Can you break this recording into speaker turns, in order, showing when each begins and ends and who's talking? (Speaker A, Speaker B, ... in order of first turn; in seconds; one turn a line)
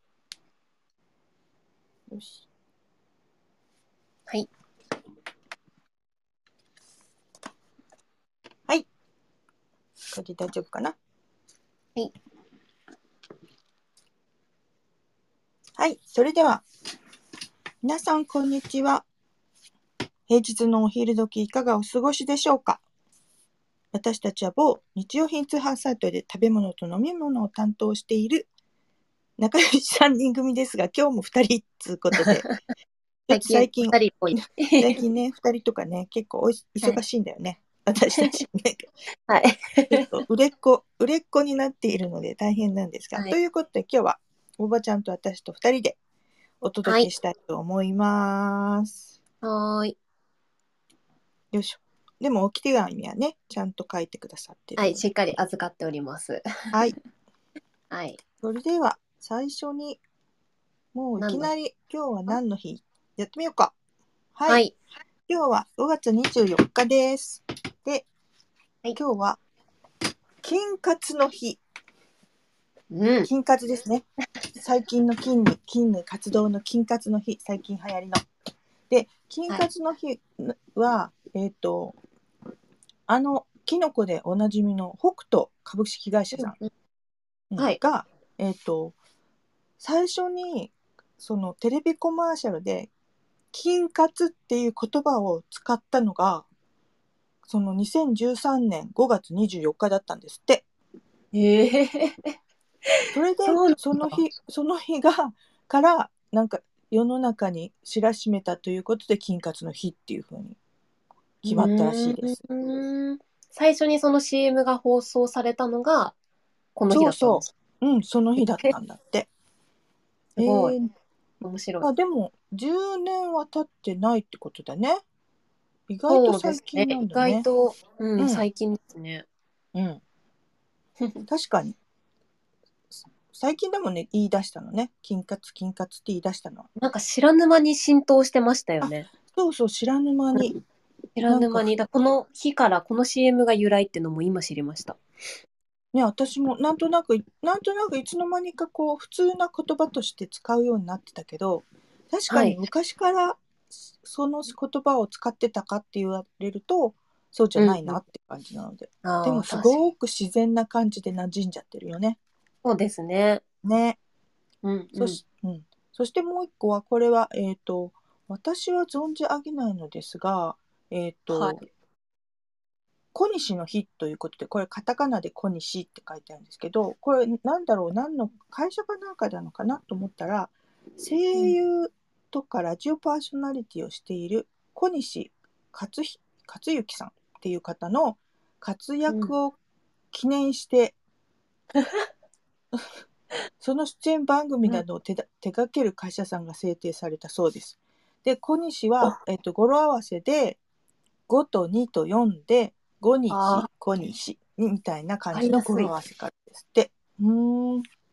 Speaker A: 2.1-2.4
Speaker A: 10.1-10.9
Speaker A: 15.8-16.6
Speaker A: 17.8-19.0
Speaker A: 20.3-22.8
Speaker A: 23.9-28.5
Speaker A: 29.4-32.4
Speaker B: 32.1-32.5
Speaker A: 33.3-38.9
Speaker B: 33.3-35.0
Speaker B: 39.3-40.1
Speaker A: 39.9-46.0
Speaker A: 46.6-49.0
Speaker B: 46.8-47.1
Speaker B: 49.4-50.0
Speaker A: 51.5-55.0
Speaker B: 54.8-56.4
Speaker B: 57.9-58.2
Speaker A: 58.4-60.0
Speaker A: 60.9-63.7
Speaker B: 61.2-61.5
Speaker A: 64.3-64.6
Speaker B: 64.5-64.7
Speaker A: 65.3-68.0
Speaker A: 69.0-69.4
Speaker A: 70.4-71.6
Speaker B: 72.9-73.3
Speaker A: 73.3-74.0
Speaker A: 74.6-78.2
Speaker A: 78.9-82.0
Speaker A: 83.1-86.5
Speaker B: 86.3-86.7
Speaker A: 87.5-89.0
Speaker A: 89.8-92.9
Speaker A: 93.5-96.5
Speaker A: 97.5-100.6
Speaker B: 101.3-102.3
Speaker B: 102.9-104.2
Speaker A: 103.1-110.6
Speaker A: 111.4-112.4
Speaker B: 111.5-116.1
Speaker B: 116.8-117.5
Speaker A: 116.9-119.3
Speaker B: 118.4-118.7
Speaker A: 120.3-120.9
Speaker B: 120.4-120.8
Speaker B: 121.4-121.9
Speaker A: 121.8-125.0
Speaker A: 125.9-127.4
Speaker B: 126.1-129.2
Speaker A: 128.2-128.4
Speaker A: 129.7-130.0
Speaker A: 131.3-131.8
Speaker A: 132.9-136.7
Speaker B: 136.8-139.1
Speaker A: 138.8-140.5
Speaker B: 140.3-140.6
Speaker B: 141.2-145.0
Speaker A: 141.3-141.7
Speaker A: 145.9-153.4
Speaker B: 152.3-152.6
Speaker A: 154.0-162.2
Speaker B: 157.6-158.0
Speaker B: 159.0-159.8
Speaker B: 162.6-163.4
Speaker A: 163.6-164.0
Speaker B: 164.6-165.2
Speaker A: 164.9-171.6
Speaker B: 171.3-171.6
Speaker A: 173.1-189.5
Speaker B: 189.1-189.3
Speaker A: 190.1-190.9
Speaker B: 191.8-192.1
Speaker A: 193.6-200.6
Speaker A: 201.3-207.8
Speaker B: 203.3-203.7
Speaker B: 205.3-205.9